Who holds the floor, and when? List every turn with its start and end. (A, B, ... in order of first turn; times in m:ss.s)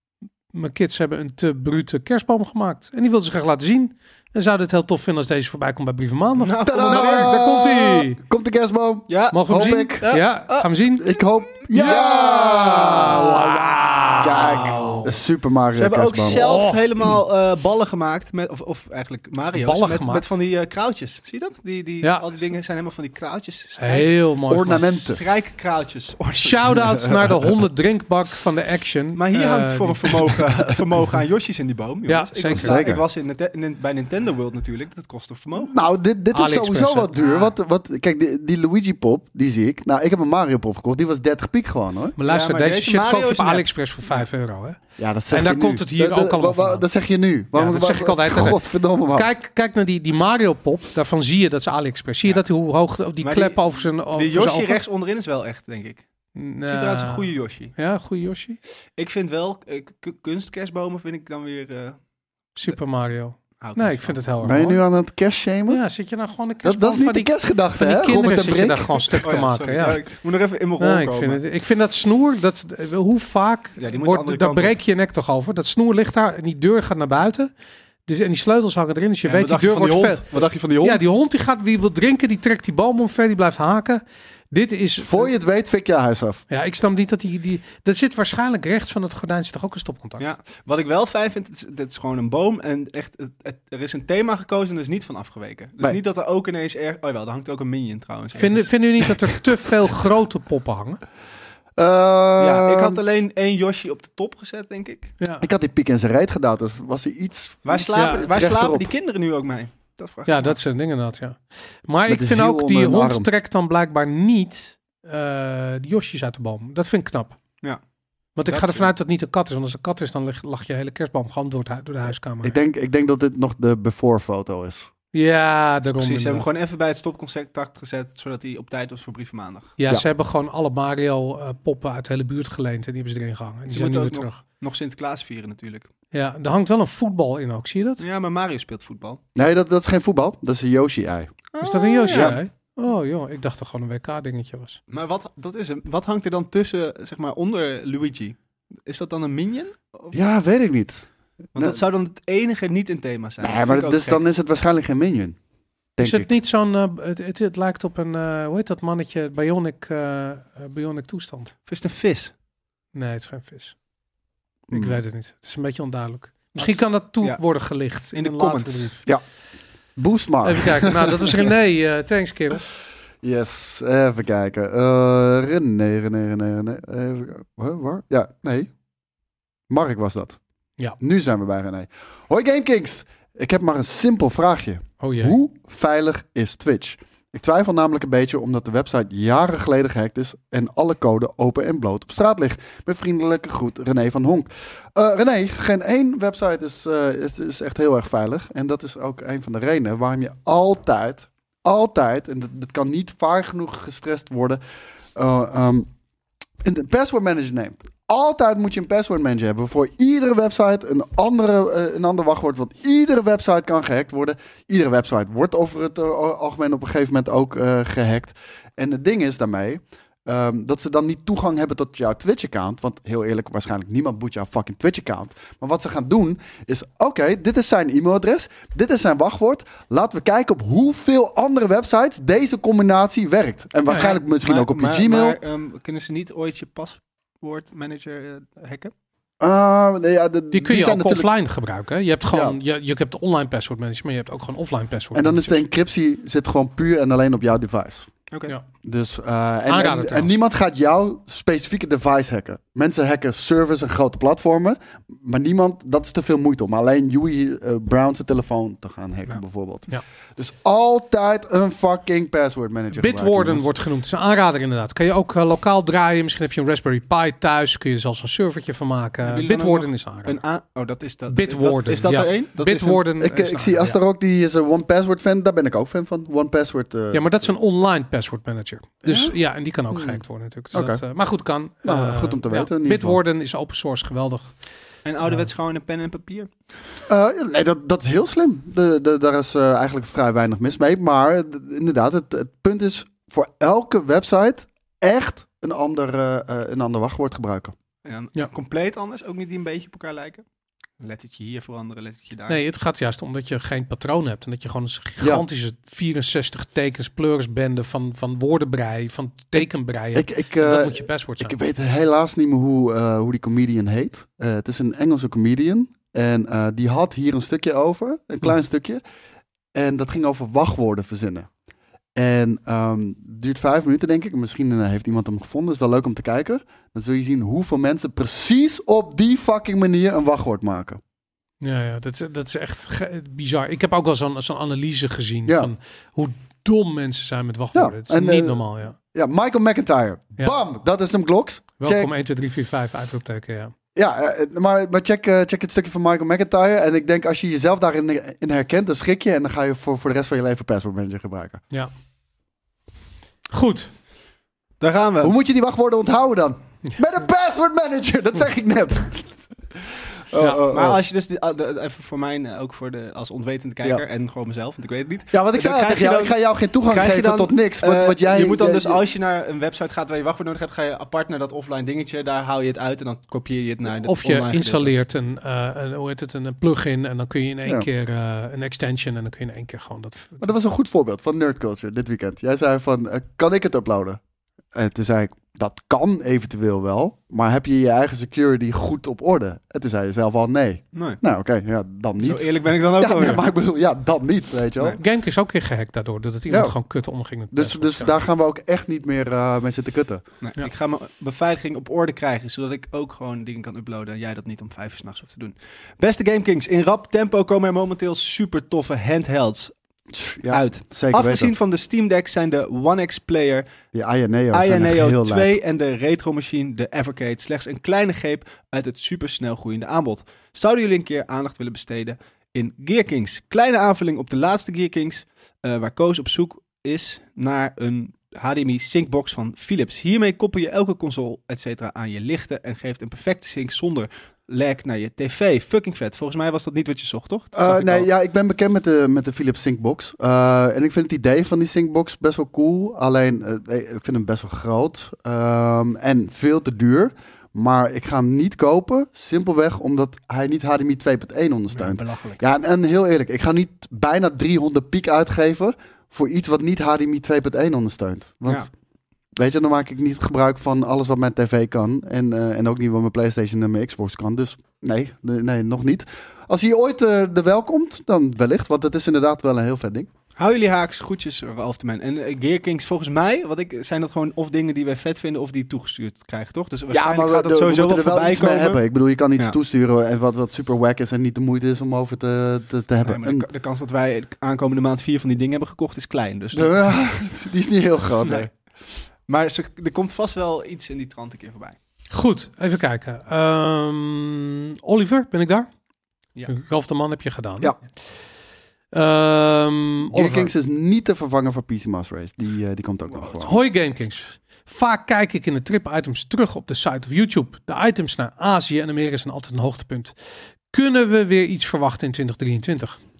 0:00.5-0:08.2 A
0:06.4-0:07.4 B
0:06.6-0:10.1 C
0:09.1-0:10.7 B
0:09.3-0:11.1 A
0:11.0-0:13.6 C
0:11.7-0:12.6 B
0:11.8-0:15.1 A
0:14.2-0:16.4 C
0:14.5-0:15.1 B
0:15.7-0:24.1 B
0:16.3-0:16.8 A
0:19.5-0:20.3 A
0:22.0-0:22.4 A
0:23.8-0:24.9 A
0:24.5-0:25.2 C
0:25.1-0:26.9 B
0:26.4-0:30.4 A
0:26.8-0:27.3 C
0:29.2-0:35.8 B
0:32.1-0:32.8 A
0:32.5-0:33.0 C
0:35.6-0:42.2 C
0:36.3-0:37.2 A
0:42.2-0:46.8 A
0:42.2-0:43.6 B
0:45.0-0:49.3 C
0:47.5-0:48.6 A
0:49.1-0:54.8 A
0:53.2-0:56.0 B
0:56.3-0:58.6 A
0:56.6-0:57.7 B
0:59.0-1:02.0 B
1:02.6-1:04.8 A
1:03.6-1:04.2 B
1:04.4-1:05.8 C
1:05.7-1:10.0 A
1:06.6-1:09.1 C
1:09.2-1:11.4 B
1:10.8-1:17.5 A
1:13.8-1:14.8 B
1:18.1-1:20.3 A
1:19.2-1:21.0 B
1:20.8-1:25.3 A
1:25.0-1:26.4 C
1:26.5-1:30.3 A
1:30.2-1:38.8 B
1:38.4-1:41.0 A
1:41.8-1:43.0 C
1:42.4-1:45.1 B
1:45.2-1:45.4 A
1:45.4-1:48.9 C
1:47.6-1:50.6 B
1:47.9-1:48.2 A
1:50.3-1:57.4 A
1:52.1-1:53.3 C
1:58.4-2:02.6 A
1:58.5-1:58.9 B
2:02.4-2:04.9 C
2:05.1-2:06.5 A
2:05.8-2:09.8 B
2:09.8-2:14.4 A
2:13.7-2:15.9 B
2:16.1-2:18.0 A
2:18.0-2:19.2 B
2:19.3-2:21.4 C
2:21.5-2:22.4 B
2:21.6-2:24.8 A
2:22.1-2:22.4 C
2:24.9-2:30.2 B
2:30.1-2:31.8 C
2:31.5-2:34.2 B
2:33.4-2:35.4 C
2:36.0-2:36.3 C
2:36.0-2:41.5 A
2:41.7-2:42.3 B
2:42.9-2:43.7 A
2:44.7-2:45.0 C
2:44.7-2:49.1 A
2:46.6-2:47.4 B
2:48.1-2:48.9 B
2:50.0-2:51.5 C
2:50.4-2:52.7 A
2:53.2-2:58.7 C
2:59.7-3:00.4 C
3:01.0-3:24.6 C
3:05.0-3:05.4 A
3:25.1-3:25.9 C
3:26.6-3:55.4 C
3:53.9-3:54.2 A
3:53.9-3:58.9 B
3:59.4-4:01.3 C
4:00.5-4:05.6 A
4:02.3-4:02.6 C
4:05.1-4:08.1 C
4:08.8-4:23.7 C
4:09.7-4:10.3 A
4:22.9-4:30.4 A
4:29.2-4:33.0 B
4:31.3-4:34.0 A
4:33.2-4:37.5 C
4:37.1-4:44.5 A
4:39.0-4:39.3 C
4:39.9-4:40.2 C
4:40.7-4:41.0 C
4:41.8-4:43.2 C
4:45.0-4:46.5 B
4:47.1-4:57.7 C
4:58.0-5:00.4 B
5:01.0-5:02.6 B
5:02.5-5:11.6 A
5:09.6-5:19.0 C
5:19.7-5:21.5 C
5:22.1-5:31.0 C
5:31.6-5:39.0 A
5:35.4-5:35.7 C
5:37.7-5:42.1 C
5:41.8-5:43.7 A
5:43.9-5:51.6 C
5:53.5-5:53.9 A
5:54.8-5:55.3 B
5:55.2-6:01.0 C
6:00.7-6:14.9 B
6:05.3-6:09.0 C
6:13.9-6:20.5 A
6:20.4-6:24.2 C
6:24.7-6:35.0 C
6:30.9-6:31.2 B
6:32.2-6:33.4 B
6:35.0-6:38.2 A
6:36.5-6:36.8 C
6:37.5-6:40.2 C
6:40.4-6:49.7 B
6:50.1-6:51.5 C
6:50.5-6:53.7 B
6:53.9-6:55.5 C
6:54.5-7:18.1 B
7:17.6-7:38.7 C
7:31.7-7:32.4 B
7:39.3-7:50.1 C
7:50.4-7:58.8 B
7:56.9-8:03.4 C
8:03.0-8:06.8 B
8:06.5-8:08.5 C
8:08.2-8:08.5 B
8:09.3-8:11.8 B
8:12.1-8:15.7 A
8:16.5-8:17.8 A
8:18.9-8:20.5 A
8:20.1-8:23.6 C
8:23.1-8:23.4 B
8:23.4-8:30.1 A
8:30.7-8:33.0 A